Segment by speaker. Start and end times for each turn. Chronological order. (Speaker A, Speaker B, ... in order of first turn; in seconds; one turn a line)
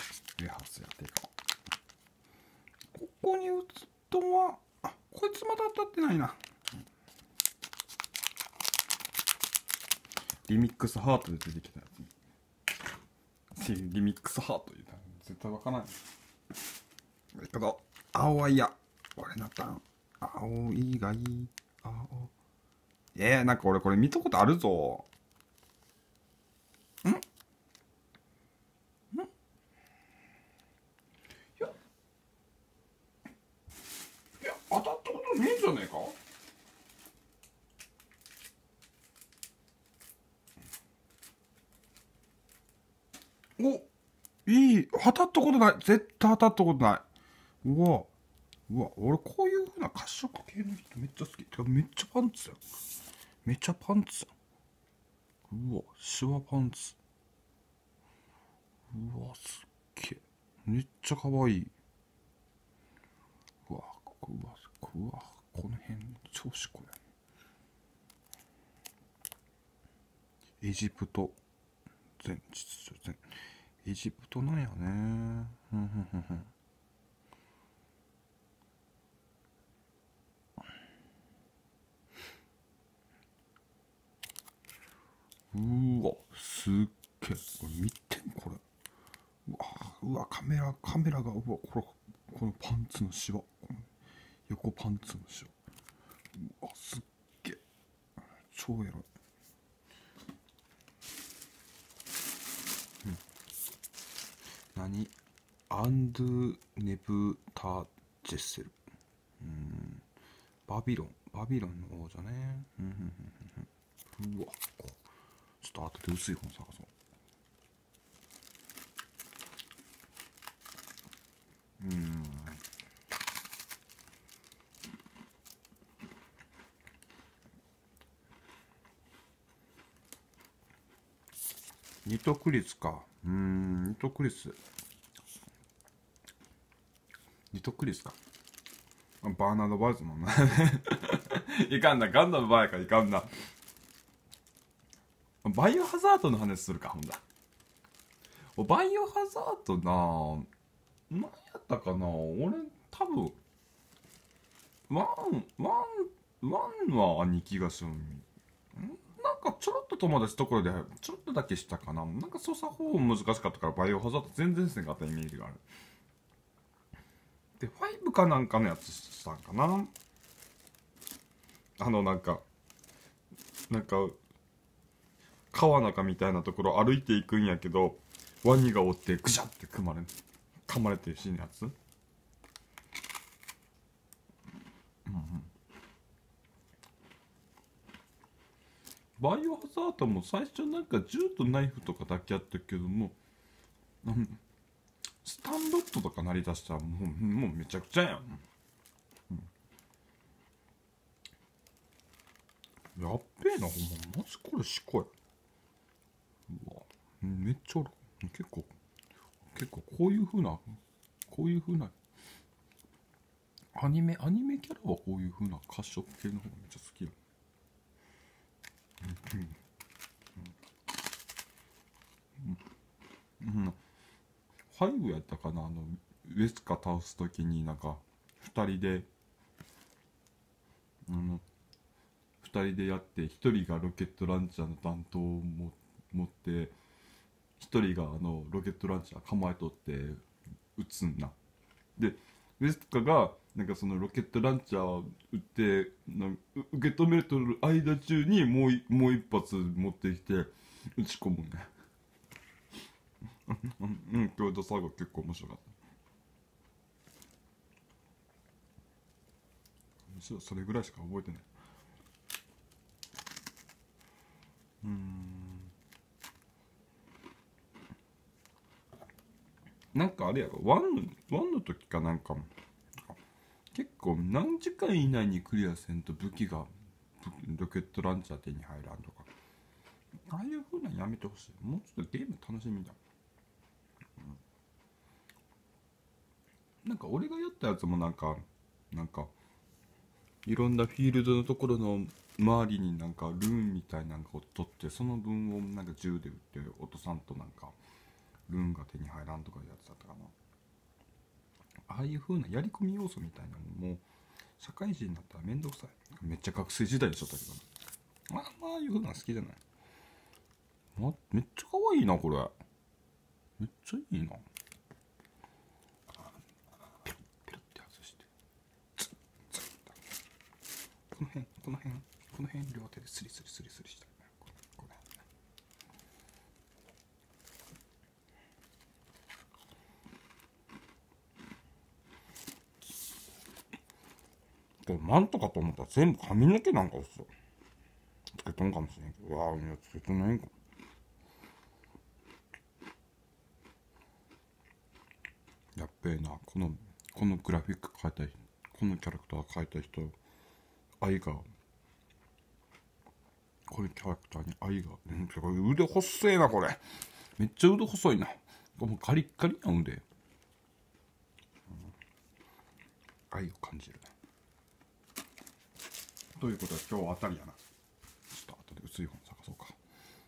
Speaker A: 0.4-1.3
Speaker A: 2.9-6.4
Speaker A: 10.5-12.1
Speaker A: 13.6-16.0
Speaker A: 17.4-22.3
Speaker A: 23.1-25.1
Speaker A: 34.4-36.2
Speaker A: 43.6-43.9
Speaker A: 44.5-47.0
Speaker A: 47.6-48.1
Speaker A: 48.7-52.6
Speaker A: 53.5-54.3
Speaker A: 55.5-57.0
Speaker A: 58.9-61.7
Speaker A: 63.7-67.0
Speaker A: 70.6-71.4
Speaker A: 72.2-73.3
Speaker A: 73.8-76.5
Speaker A: 85.5-88.6
Speaker A: 89.5-93.9
Speaker A: 94.5-95.5
Speaker A: 96.3-97.6
Speaker A: 98.5-99.1
Speaker A: 104.7-105.1
Speaker A: 105.7-108.8
Speaker A: 109.4-110.1
Speaker A: 110.7-115.0
Speaker A: 115.6-116.9
Speaker A: 121.8-122.6
Speaker A: 132.1-134.6
Speaker A: 137.5-138.2
Speaker A: 139.2-143.3
Speaker A: 145.4-147.2
Speaker A: 148.6-150.5
Speaker A: 151.1-153.4
Speaker A: 154.9-165.6
Speaker A: 167.6-169.9
Speaker A: 171.8-172.4
Speaker A: 173.7-174.2
Speaker A: 175.5-180.1
Speaker A: 180.7-181.7
Speaker A: 185.1-185.5
Speaker A: 189.2-193.2
Speaker A: 194.0-194.4
Speaker A: 195.2-198.4
Speaker A: 202.9-205.1
Speaker A: 206.5-208.7
Speaker A: 209.4-211.9
Speaker A: 213.7-217.2
Speaker A: 219.0-219.6
Speaker A: 223.4-223.8
Speaker A: 224.7-229.1
Speaker A: 231.1-231.4
Speaker A: 232.4-236.8
Speaker A: 237.6-240.2
Speaker A: 240.8-241.3
Speaker A: 242.0-251.7
Speaker A: 253.5-255.7
Speaker A: 260.1-261.5
Speaker A: 264.8-265.7
Speaker A: 269.9-272.5
Speaker A: 273.7-279.3
Speaker A: 280.3-283.0
Speaker A: 286.8-289.3
Speaker A: 290.4-297.8
Speaker A: 298.5-300.3
Speaker A: 301.9-304.0
Speaker A: 304.6-307.6
Speaker A: 308.3-309.6
Speaker A: 311.0-312.5
Speaker A: 313.6-314.4
Speaker A: 317.0-318.3
Speaker A: 319.0-319.9
Speaker A: 321.1-325.1
Speaker A: 334.8-337.3
Speaker A: 338.4-340.5
Speaker A: 345.8-350.1
Speaker A: 351.0-351.5
Speaker A: 353.7-356.8
Speaker A: 357.4-360.0
Speaker A: 363.3-364.1
Speaker A: 366.4-367.6
Speaker A: 368.3-369.8